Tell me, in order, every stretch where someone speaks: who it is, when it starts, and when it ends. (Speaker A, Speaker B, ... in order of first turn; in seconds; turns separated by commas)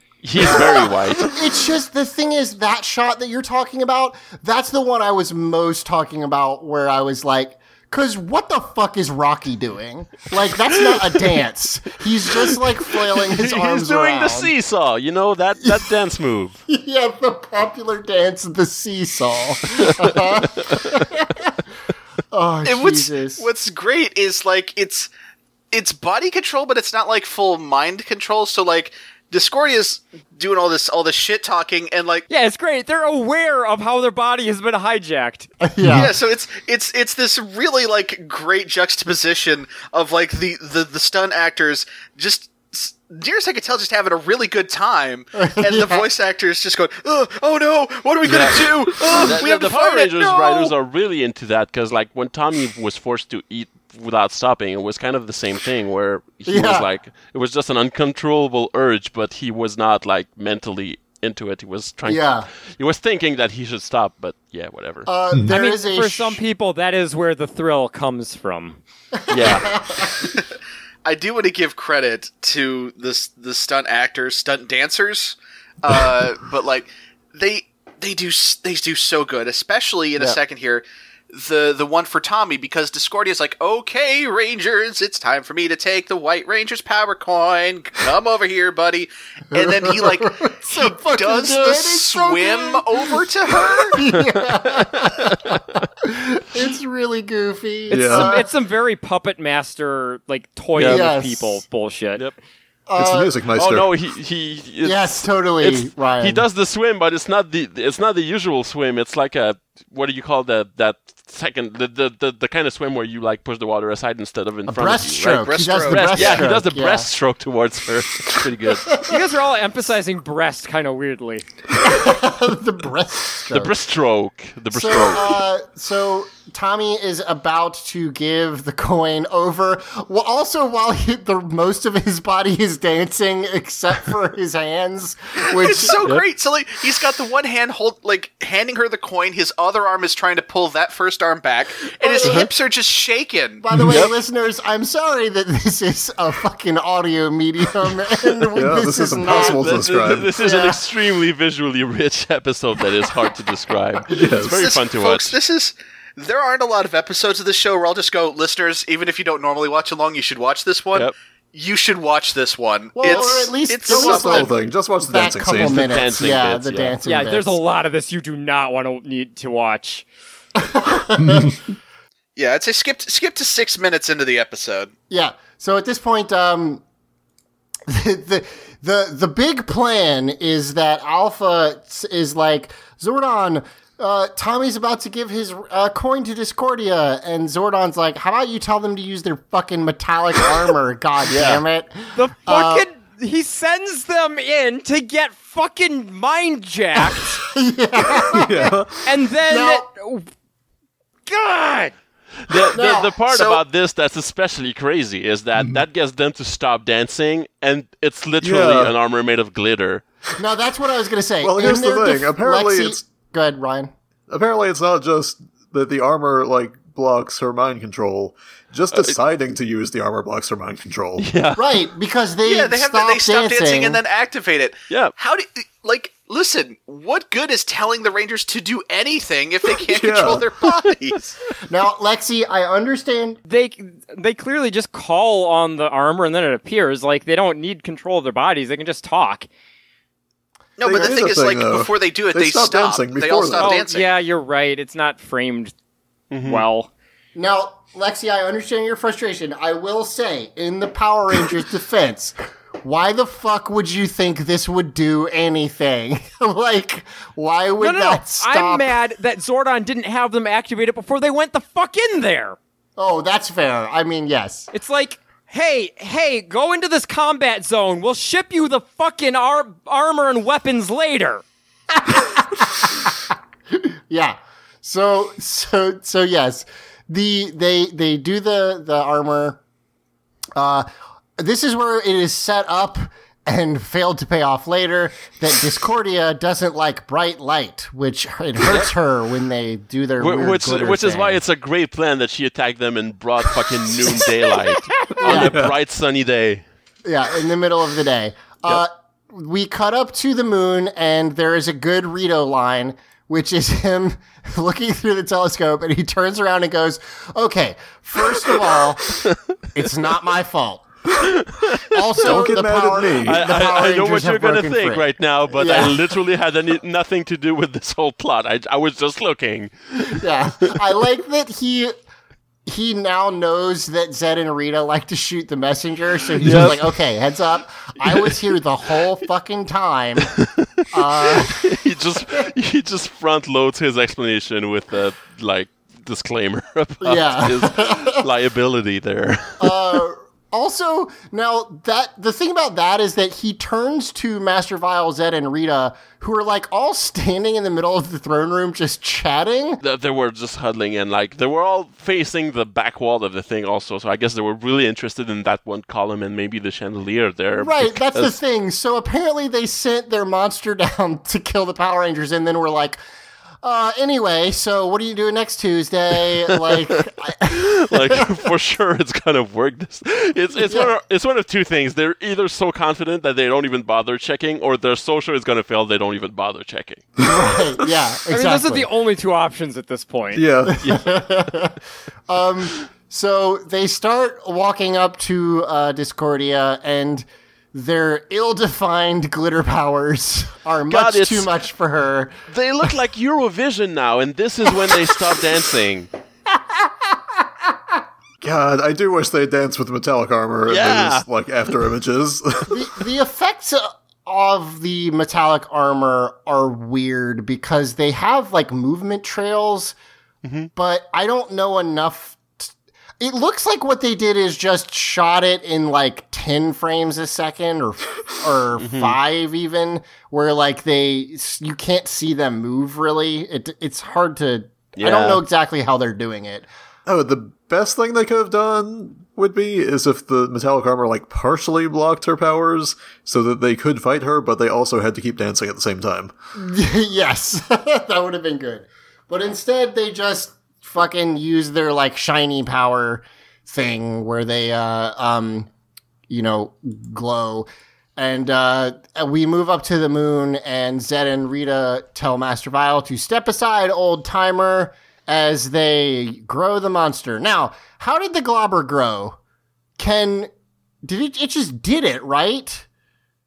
Speaker A: 0.2-1.4, Speaker B: 0.4-14.5, Speaker A: 13.1-16.6, Speaker B: 15.6-15.9, Speaker B: 16.7-21.6, Speaker A: 19.9-20.1, Speaker B: 22.3-23.5, Speaker C: 22.6-25.1, Speaker C: 25.7-32.3, Speaker D: 32.3-35.5, Speaker B: 35.6-36.1, Speaker C: 35.9-50.7, Speaker B: 45.4-46.1, Speaker A: 48.2-65.1, Speaker B: 56.5-56.9, Speaker B: 62.1-62.5, Speaker B: 65.1-66.4, Speaker D: 65.5-68.8, Speaker B: 69.2-70.2, Speaker A: 69.3-69.7, Speaker C: 71.0-94.0, Speaker B: 89.5-93.2, Speaker B: 93.7-98.5, Speaker A: 94.7-95.6, Speaker E: 97.9-98.3, Speaker D: 98.1-102.2, Speaker A: 100.8-101.0, Speaker B: 100.8-101.6, Speaker B: 102.9-103.3, Speaker E: 103.0-103.9, Speaker A: 103.6-118.9, Speaker B: 104.8-106.5, Speaker B: 114.7-117.1, Speaker C: 115.3-116.5, Speaker D: 119.1-121.5, Speaker B: 121.8-123.7, Speaker A: 123.5-125.4, Speaker B: 124.7-136.0, Speaker C: 135.5-143.6, Speaker B: 142.0-142.5, Speaker B: 143.6-149.8, Speaker E: 148.6-150.3, Speaker A: 149.4-155.3, Speaker B: 150.4-150.8, Speaker E: 154.1-154.6, Speaker C: 154.5-164.6, Speaker B: 162.9-167.6, Speaker E: 163.8-165.9, Speaker A: 165.7-166.9, Speaker D: 167.1-170.1, Speaker B: 170.6-171.5, Speaker E: 171.3-171.5, Speaker C: 172.4-174.9, Speaker B: 175.1-176.8, Speaker B: 177.9-192.9, Speaker A: 191.3-191.6, Speaker D: 192.1-197.4, Speaker B: 197.2-198.7, Speaker E: 198.3-199.0, Speaker D: 199.1-200.3, Speaker B: 199.5-199.9, Speaker D: 201.3-201.9, Speaker A: 202.5-210.0, Speaker B: 202.7-203.2, Speaker C: 203.3-203.6, Speaker E: 205.6-205.8, Speaker E: 208.4-208.9, Speaker B: 210.4-213.9, Speaker E: 211.4-213.0, Speaker E: 214.3-221.3, Speaker A: 221.2-221.6, Speaker B: 221.6-224.0, Speaker C: 222.4-231.3, Speaker E: 229.9-230.4, Speaker B: 231.7-233.4, Speaker D: 233.5-239.5, Speaker C: 240.8-244.1, Speaker E: 240.8-243.8, Speaker D: 243.6-245.7, Speaker A: 246.3-246.6, Speaker D: 246.5-246.9, Speaker B: 247.3-259.0, Speaker D: 257.8-262.6, Speaker B: 263.0-264.7, Speaker D: 264.7-271.4, Speaker B: 271.9-279.6, Speaker B: 280.6-280.9, Speaker B: 281.4-291.4, Speaker A: 290.2-296.6, Speaker B: 294.1-294.3, Speaker E: 295.2-295.7, Speaker B: 295.2-295.6, Speaker B: 297.1-310.9, Speaker B: 311.9-316.1, Speaker E: 312.2-313.4, Speaker A: 313.3-320.2, Speaker B: 320.1-321.9, Speaker B: 322.7-330.3, Speaker E: 326.4-326.8, Speaker A: 326.4-326.7, Speaker B: 330.9-331.7, Speaker A: 331.4-339.8, Speaker B: 337.0-338.2, Speaker B: 339.6-349.8, Speaker A: 349.8-358.3, Speaker B: 357.6-363.0, Speaker B: 363.6-368.3, Speaker A: 367.5-377.1, Speaker B: 370.6-370.9, Speaker B: 377.2-378.9, Speaker D: 378.3-380.4, Speaker E: 380.3-380.8, Speaker B: 380.7-392.3, Speaker A: 380.8-381.2, Speaker A: 390.9-391.5, Speaker A: 392.5-396.1, Speaker B: 396.5-396.9, Speaker E: 398.4-402.9, Speaker A: 400.7-401.2, Speaker B: 402.7-410.0, Speaker A: 410.4-410.7, Speaker B: 410.8-426.7, Speaker A: 418.8-419.1, Speaker A: 425.0-425.4, Speaker E: 427.1-436.3, Speaker B: 436.6-445.7, Speaker B: 446.3-459.4, Speaker B: 460.0-460.5, Speaker B: 461.0-462.9